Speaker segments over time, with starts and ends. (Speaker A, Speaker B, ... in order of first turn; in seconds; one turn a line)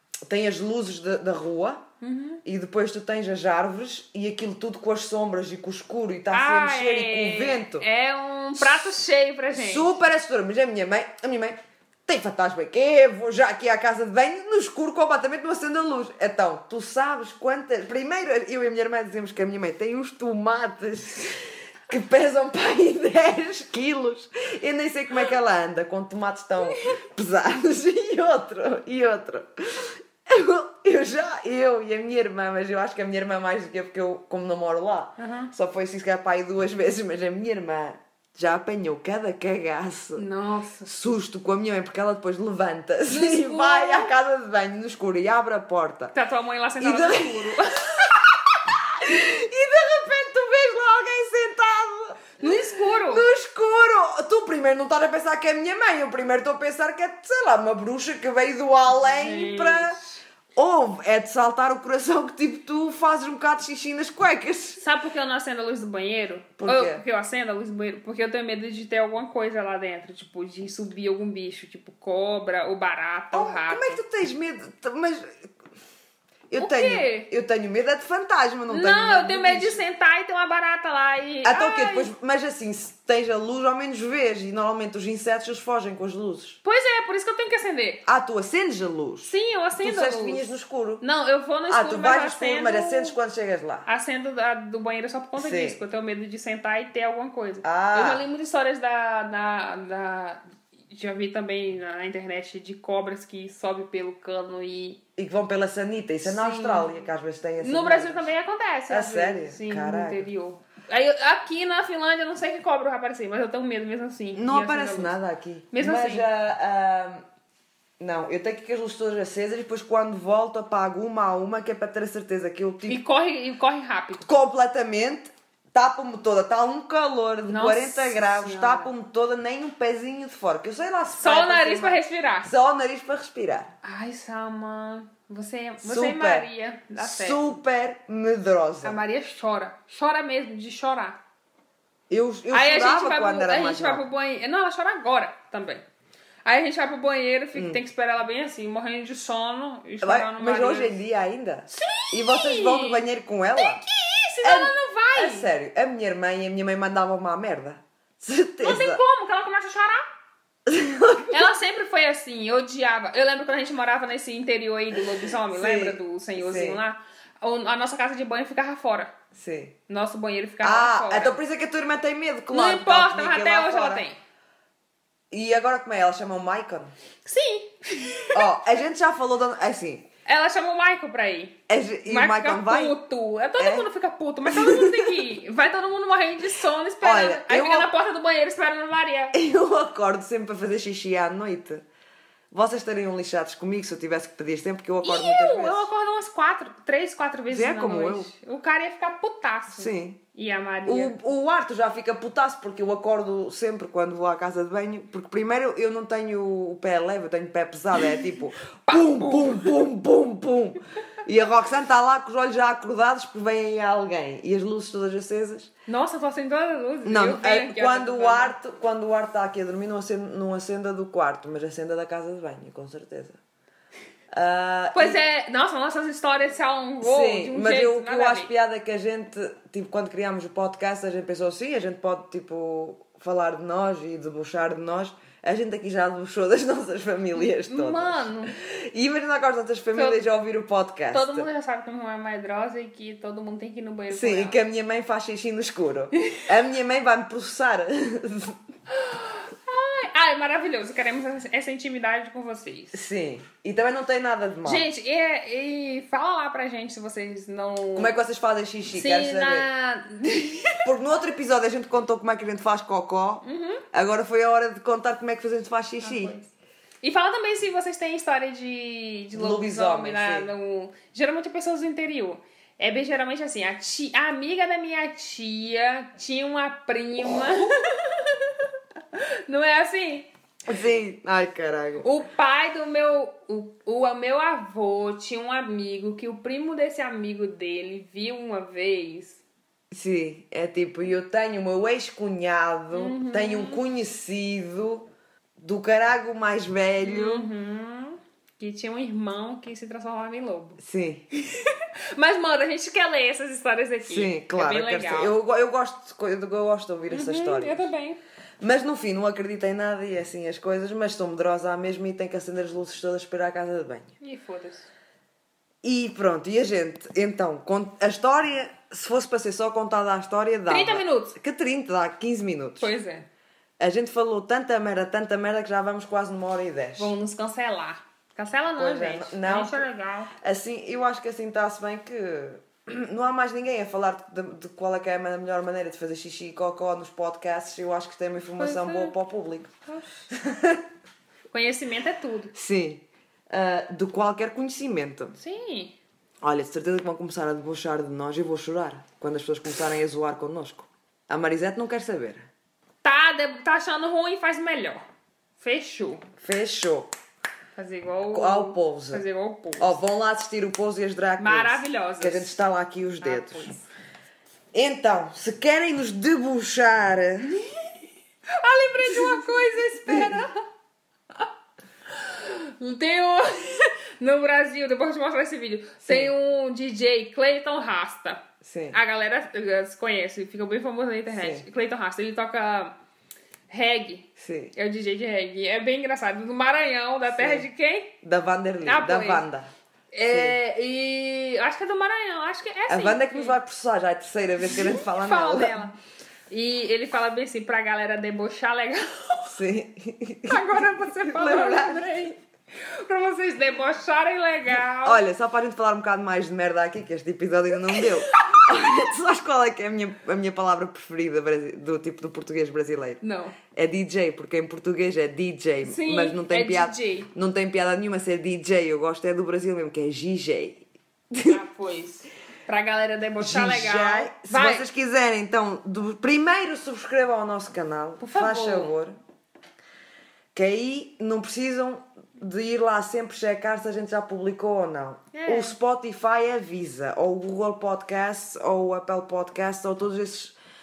Speaker A: 0.3-1.8
Speaker B: 2.0-2.4
Speaker A: 2.4-7.8
Speaker B: 6.3-10.0
Speaker A: 8.6-8.9
Speaker A: 9.5-40.2
Speaker B: 35.2-35.5
Speaker B: 40.1-40.9
Speaker A: 40.9-46.1
Speaker B: 43.1-44.1
Speaker B: 46.1-47.9
Speaker A: 46.8-52.5
Speaker B: 52.4-53.3
Speaker A: 53.0-60.0
Speaker B: 58.9-60.2
Speaker A: 60.5-64.8
Speaker B: 64.8-74.0
Speaker A: 66.6-67.0
Speaker A: 73.3-75.5
Speaker A: 76.5-79.8
Speaker B: 76.6-77.3
Speaker B: 78.7-82.1
Speaker A: 81.4-86.6
Speaker B: 86.6-88.0
Speaker A: 88.0-91.0
Speaker B: 89.2-90.4
Speaker B: 91.0-93.2
Speaker A: 91.7-93.9
Speaker B: 93.8-105.0
Speaker A: 95.3-95.8
Speaker A: 97.6-98.2
Speaker A: 105.2-108.3
Speaker B: 106.2-107.1
Speaker B: 107.6-115.1
Speaker A: 108.9-110.3
Speaker A: 114.3-117.2
Speaker B: 115.7-116.2
Speaker A: 118.0-123.0
Speaker B: 122.8-124.3
Speaker A: 124.2-133.7
Speaker B: 127.5-128.9
Speaker B: 131.1-132.5
Speaker B: 133.8-137.6
Speaker A: 135.8-139.0
Speaker B: 138.8-141.2
Speaker A: 142.1-144.1
Speaker B: 142.5-145.8
Speaker B: 146.4-150.9
Speaker A: 147.5-147.8
Speaker A: 150.0-153.8
Speaker B: 151.7-153.0
Speaker B: 153.6-155.5
Speaker A: 154.4-159.0
Speaker B: 158.6-160.1
Speaker A: 160.7-161.4
Speaker B: 161.3-169.1
Speaker A: 165.5-166.8
Speaker A: 169.3-169.8
Speaker B: 169.9-171.4
Speaker A: 170.6-174.0
Speaker B: 172.5-174.2
Speaker A: 175.3-176.9
Speaker B: 177.2-178.5
Speaker A: 178.3-180.1
Speaker B: 180.2-189.3
Speaker A: 181.7-183.0
Speaker A: 183.6-183.9
Speaker A: 184.5-185.1
Speaker A: 187.0-187.9
Speaker A: 189.3-191.8
Speaker A: 192.5-195.9
Speaker B: 195.0-201.1
Speaker A: 197.5-198.3
Speaker A: 199.7-200.2
Speaker A: 200.8-215.7
Speaker B: 208.8-209.7
Speaker B: 215.9-218.5
Speaker A: 217.0-223.4
Speaker A: 224.3-225.2
Speaker B: 224.9-228.5
Speaker A: 227.0-241.5
Speaker B: 237.3-238.5
Speaker B: 239.9-240.2
Speaker B: 241.1-244.6
Speaker A: 244.1-248.6
Speaker B: 248.9-253.0
Speaker A: 252.9-254.9
Speaker B: 254.6-258.1
Speaker A: 257.9-259.7
Speaker B: 258.9-260.9
Speaker A: 260.8-266.4
Speaker B: 263.4-263.8
Speaker B: 266.0-266.5
Speaker B: 267.0-278.6
Speaker A: 269.3-270.5
Speaker B: 279.1-280.3
Speaker A: 280.7-282.1
Speaker B: 282.0-289.4
Speaker A: 289.9-295.1
Speaker B: 292.9-293.8
Speaker A: 295.6-297.5
Speaker B: 297.0-300.8
Speaker A: 300.8-301.2
Speaker B: 301.4-305.3
Speaker A: 304.0-307.9
Speaker B: 307.1-308.2
Speaker A: 308.6-314.1
Speaker B: 314.2-314.9
Speaker A: 315.8-322.9
Speaker B: 320.7-321.4
Speaker B: 322.8-323.3
Speaker A: 323.8-327.1
Speaker B: 327.0-330.3
Speaker A: 328.8-329.9
Speaker A: 330.4-339.7
Speaker B: 338.6-339.1
Speaker B: 339.9-340.3
Speaker A: 340.3-340.8
Speaker B: 341.5-342.5
Speaker A: 342.5-345.4
Speaker B: 345.4-345.9
Speaker A: 346.4-352.5
Speaker B: 353.0-355.0
Speaker B: 355.6-356.2
Speaker A: 356.4-357.1
Speaker B: 357.7-360.0
Speaker A: 358.3-359.2
Speaker A: 359.8-363.8
Speaker B: 361.4-362.6
Speaker B: 363.2-363.9
Speaker A: 364.7-367.6
Speaker B: 368.6-370.6
Speaker A: 369.0-370.4
Speaker B: 372.1-382.9
Speaker A: 376.0-376.3
Speaker A: 378.6-379.0
Speaker A: 381.3-381.6
Speaker B: 383.7-388.2
Speaker A: 384.4-384.7
Speaker A: 387.3-387.7
Speaker A: 388.2-389.7
Speaker B: 388.8-389.4
Speaker B: 390.1-393.6
Speaker A: 390.3-390.6
Speaker A: 392.9-395.8
Speaker B: 394.7-395.9
Speaker B: 396.5-399.5
Speaker A: 399.4-402.3
Speaker B: 400.5-405.2
Speaker A: 405.0-413.2
Speaker B: 407.9-408.7
Speaker B: 413.2-413.6
Speaker A: 413.7-421.6
Speaker B: 415.8-417.3
Speaker B: 421.4-424.9
Speaker A: 423.4-429.1
Speaker B: 428.2-428.9
Speaker A: 430.5-440.6
Speaker B: 435.3-435.8